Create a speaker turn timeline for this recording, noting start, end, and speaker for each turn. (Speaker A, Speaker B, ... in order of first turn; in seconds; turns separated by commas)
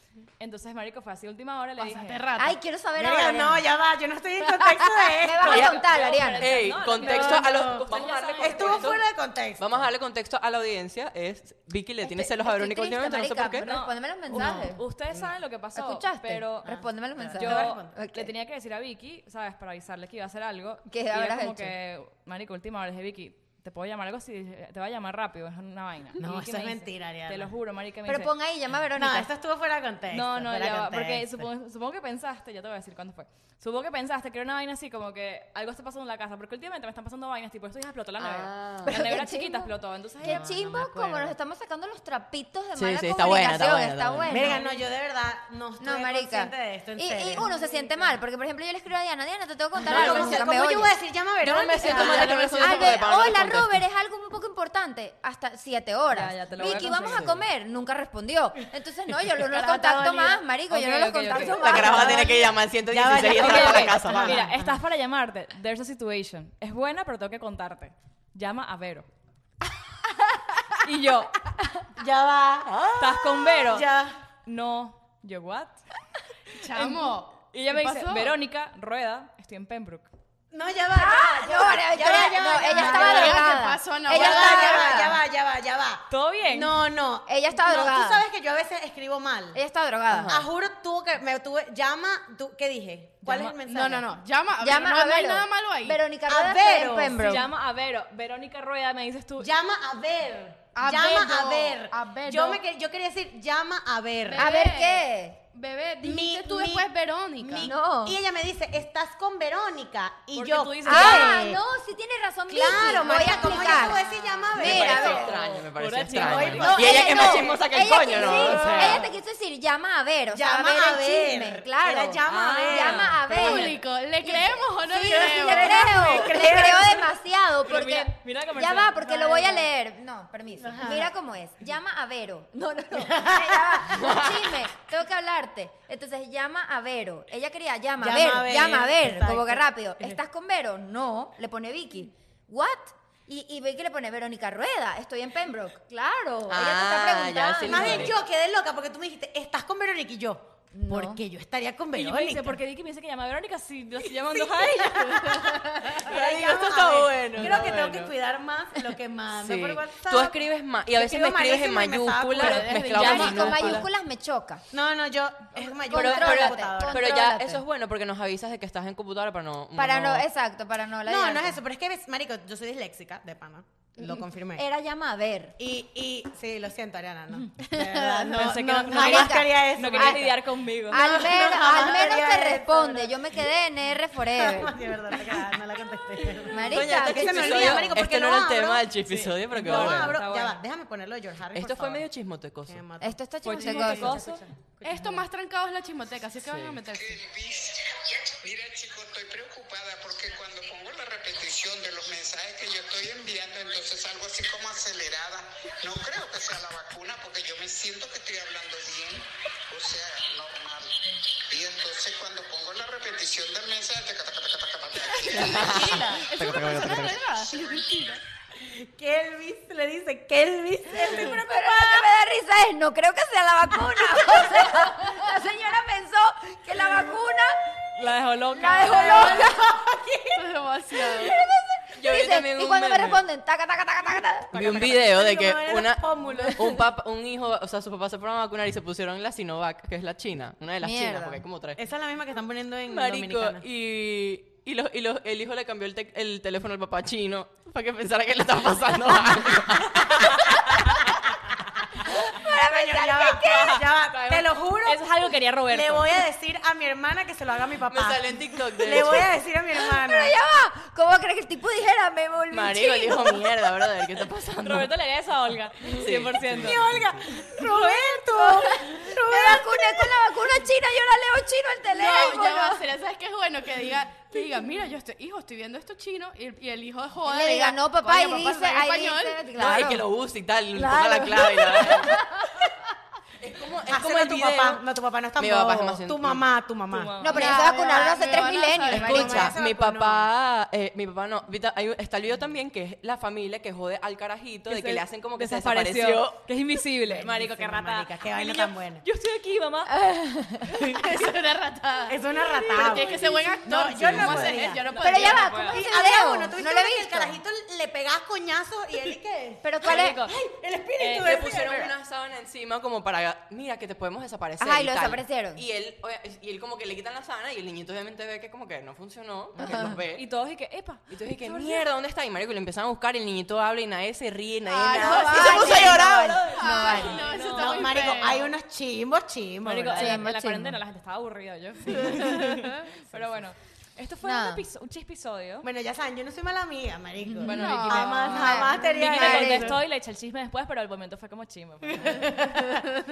Speaker A: 0.4-2.2, Speaker B: 1.8-2.6, Speaker C: 2.4-3.7, Speaker D: 3.0-5.9, Speaker B: 4.6-5.0, Speaker C: 5.2-6.5, Speaker E: 5.5-13.7, Speaker A: 5.7-9.0, Speaker D: 7.0-9.7, Speaker C: 12.0-14.8, Speaker A: 13.6-16.8, Speaker E: 14.3-14.7, Speaker D: 15.1-15.3, Speaker C: 15.7-18.3, Speaker D: 16.6-17.9, Speaker A: 17.3-28.3, Speaker C: 20.9-21.7, Speaker D: 26.2-27.5, Speaker C: 28.0-29.3, Speaker D: 28.9-31.4, Speaker A: 30.1-40.6, Speaker E: 38.2-39.0, Speaker C: 38.8-39.7, Speaker D: 40.2-41.3, Speaker C: 40.2-44.7, Speaker E: 42.7-44.5, Speaker D: 44.3-48.0, Speaker C: 45.8-50.9, Speaker D: 49.8-52.6, Speaker E: 49.8-50.6, Speaker E: 51.4-53.8, Speaker B: 51.8-53.0, Speaker C: 52.0-62.4, Speaker A: 56.1-57.2, Speaker E: 57.1-57.4, Speaker B: 59.5-60.4, Speaker A: 60.7-61.9, Speaker E: 61.4-64.6, Speaker D: 61.6-64.5, Speaker A: 63.3-69.1, Speaker A: 70.8-71.3, Speaker D: 72.0-74.2, Speaker A: 73.0-75.8, Speaker B: 76.5-78.3, Speaker A: 76.7-80.1, Speaker D: 80.5-89.6, Speaker C: 80.9-85.2, Speaker B: 82.6-85.0, Speaker A: 86.1-86.8, Speaker C: 87.2-88.2, Speaker C: 89.5-90.3, Speaker E: 90.1-90.5, Speaker D: 90.3-94.1, Speaker A: 93.2-93.6, Speaker B: 93.6-96.0, Speaker C: 94.6-97.5, Speaker D: 96.3-97.2, Speaker A: 97.1-99.5, Speaker D: 99.4-104.5, Speaker B: 100.7-102.6, Speaker B: 104.2-107.7, Speaker C: 104.3-105.4, Speaker D: 106.0-111.6, Speaker C: 107.6-108.2, Speaker A: 110.3-111.4, Speaker C: 110.8-115.5, Speaker D: 112.5-115.4, Speaker A: 113.1-113.5, Speaker E: 114.5-119.1, Speaker A: 114.7-117.0, Speaker D: 116.2-119.1, Speaker C: 116.3-148.1, Speaker D: 120.3-123.1, Speaker A: 122.2-123.2, Speaker B: 123.1-126.4, Speaker D: 125.0-127.1, Speaker A: 127.7-129.7, Speaker D: 130.6-131.1, Speaker D: 133.1-134.1, Speaker D: 138.0-140.1, Speaker E: 146.5-148.1, Speaker D: 147.6-152.5, Speaker C: 150.7-151.2, Speaker A: 151.9-156.1, Speaker D: 154.2-163.5, Speaker E: 156.1-158.1, Speaker E: 159.3-163.9, Speaker B: 162.4-163.8, Speaker C: 162.5-164.6, Speaker D: 164.7-167.2, Speaker E: 165.8-170.3, Speaker C: 165.9-167.6, Speaker C: 169.7-171.6, Speaker D: 171.1-174.6, Speaker C: 174.6-175.6, Speaker D: 175.6-180.4, Speaker B: 177.6-178.5, Speaker A: 178.2-181.0, Speaker C: 178.9-180.3, Speaker C: 180.9-184.7, Speaker D: 180.9-183.1, Speaker D: 184.3-192.1, Speaker C: 186.5-188.0, Speaker E: 186.7-190.2, Speaker A: 189.0-190.6, Speaker E: 191.5-192.8, Speaker D: 192.7-195.2, Speaker C: 193.0-194.2, Speaker A: 193.4-194.5, Speaker B: 194.8-197.2, Speaker E: 196.4-196.8, Speaker F: 196.9-210.9, Speaker F: 211.5-215.9, Speaker B: 215.1-218.2, Speaker E: 215.3-217.2, Speaker D: 215.6-216.3, Speaker D: 218.6-222.0, Speaker C: 220.9-228.0, Speaker A: 227.9-229.4, Speaker C: 228.5-229.9, Speaker D: 229.2-230.4, Speaker B: 230.3-231.4, Speaker C: 231.1-234.8, Speaker E: 231.9-233.2, Speaker E: 234.5-241.8, Speaker D: 234.5-236.9, Speaker C: 240.8-241.4, Speaker D: 241.8-243.7, Speaker E: 242.8-251.2, Speaker C: 252.0-253.9, Speaker D: 252.5-260.4, Speaker E: 253.5-254.5, Speaker A: 254.8-256.1, Speaker E: 257.9-259.3, Speaker C: 258.9-263.8, Speaker E: 262.5-264.9, Speaker A: 264.6-266.8, Speaker E: 265.9-267.2, Speaker D: 266.5-270.2, Speaker C: 267.8-272.8, Speaker B: 271.9-279.5, Speaker C: 277.2-280.0, Speaker E: 279.5-282.2, Speaker D: 280.7-282.1, Speaker C: 281.9-282.2, Speaker E: 283.4-284.8, Speaker D: 283.9-290.3, Speaker E: 285.4-286.4, Speaker A: 286.9-287.5, Speaker C: 287.2-289.6, Speaker B: 287.3-289.5, Speaker E: 288.9-296.4, Speaker A: 294.7-299.9, Speaker D: 297.1-299.0, Speaker C: 299.9-300.6, Speaker B: 300.7-305.6, Speaker D: 302.1-311.9, Speaker A: 302.7-303.1, Speaker A: 304.2-305.9, Speaker C: 305.0-307.4, Speaker C: 309.6-310.2, Speaker A: 309.8-310.4, Speaker A: 311.0-311.6, Speaker E: 311.1-320.2, Speaker C: 314.6-315.6, Speaker C: 319.6-320.0, Speaker A: 320.1-321.8, Speaker E: 321.1-327.2, Speaker C: 324.7-327.3, Speaker D: 324.8-326.4, Speaker B: 324.9-328.5, Speaker A: 326.7-328.1, Speaker D: 327.5-330.3, Speaker A: 329.6-335.7, Speaker C: 329.9-330.8, Speaker D: 331.9-332.4, Speaker C: 334.2-334.6, Speaker D: 335.6-339.8, Speaker B: 337.4-338.3, Speaker A: 337.4-342.6, Speaker C: 338.2-339.8, Speaker D: 342.4-342.6